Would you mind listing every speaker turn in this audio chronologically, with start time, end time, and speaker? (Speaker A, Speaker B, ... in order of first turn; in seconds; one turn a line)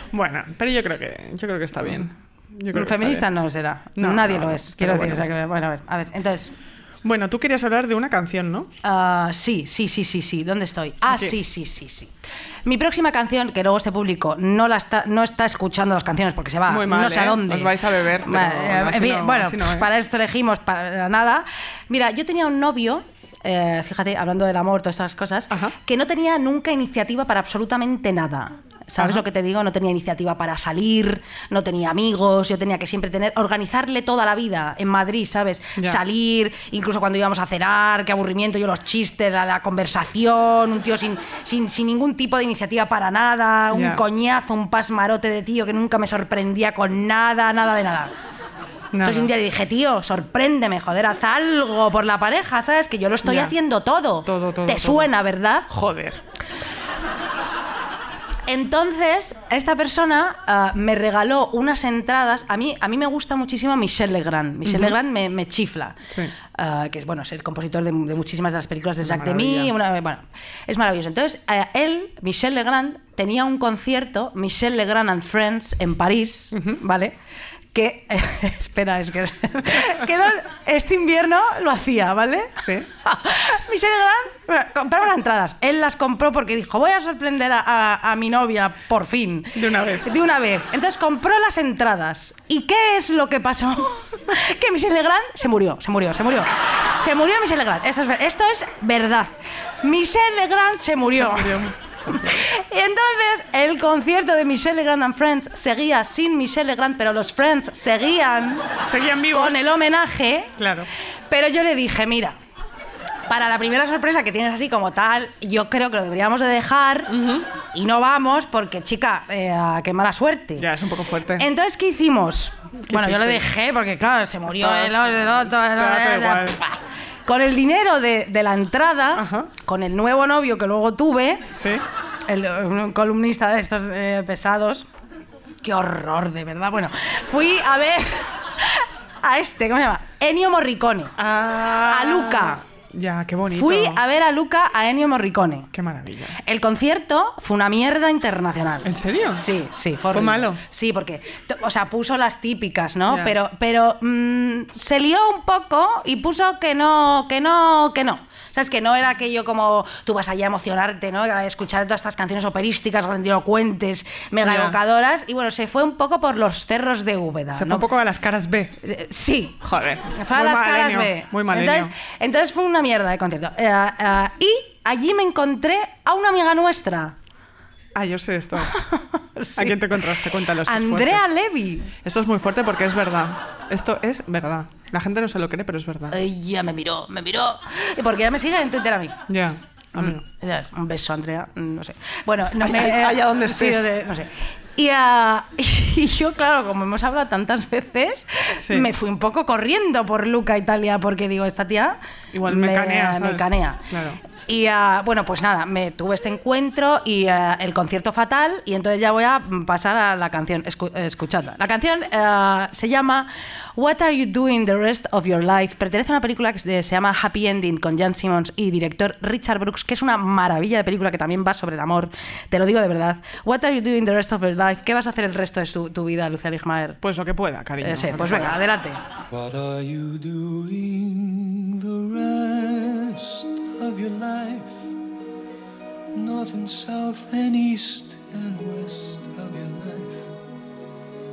Speaker A: 0.1-3.3
Speaker B: 2.7-6.5
Speaker A: 4.0-5.3
Speaker A: 7.0-8.7
Speaker B: 8.8-12.1
Speaker A: 11.1-11.4
Speaker B: 12.7-48.1
Speaker A: 16.7-19.9
Speaker A: 43.7-44.0
Speaker A: 48.9-49.3
Speaker B: 49.0-55.7
Speaker A: 53.2-53.6
Speaker A: 54.2-55.1
Speaker A: 55.7-56.2
Speaker B: 58.5-66.0
Speaker A: 64.7-65.0
Speaker B: 66.5-77.2
Speaker A: 69.0-69.7
Speaker A: 76.5-76.8
Speaker B: 77.7-108.7
Speaker A: 82.6-82.9
Speaker A: 89.5-90.1
Speaker A: 101.2-102.4
Speaker A: 108.8-109.6
Speaker B: 109.3-110.5
Speaker A: 110.6-110.9
Speaker B: 111.3-112.4
Speaker B: 113.3-117.1
Speaker A: 117.1-117.5
Speaker B: 117.7-120.7
Speaker A: 120.6-121.5
Speaker B: 121.4-131.5
Speaker A: 122.9-123.4
Speaker A: 124.5-126.6
Speaker A: 129.2-129.5
Speaker A: 131.5-131.8
Speaker B: 132.3-134.9
Speaker B: 135.6-141.2
Speaker A: 141.2-144.0
Speaker B: 141.9-142.6
Speaker B: 143.5-145.7
Speaker A: 145.7-146.4
Speaker B: 146.4-167.9
Speaker A: 148.8-149.5
Speaker A: 150.1-150.6
Speaker A: 153.1-153.3
Speaker A: 164.4-164.8
Speaker A: 167.5-168.8
Speaker B: 168.8-169.6
Speaker A: 169.6-171.9
Speaker B: 170.1-177.2
Speaker A: 177.9-178.7
Speaker B: 178.6-181.9
Speaker A: 179.6-181.3
Speaker A: 182.0-186.2
Speaker B: 186.1-189.2
Speaker A: 189.3-190.2
Speaker B: 189.9-227.0
Speaker A: 192.6-193.9
Speaker A: 198.6-198.9
Speaker A: 202.3-204.2
Speaker A: 227.0-228.6
Speaker B: 227.8-229.0
Speaker C: 229.3-234.9
Speaker C: 236.1-240.3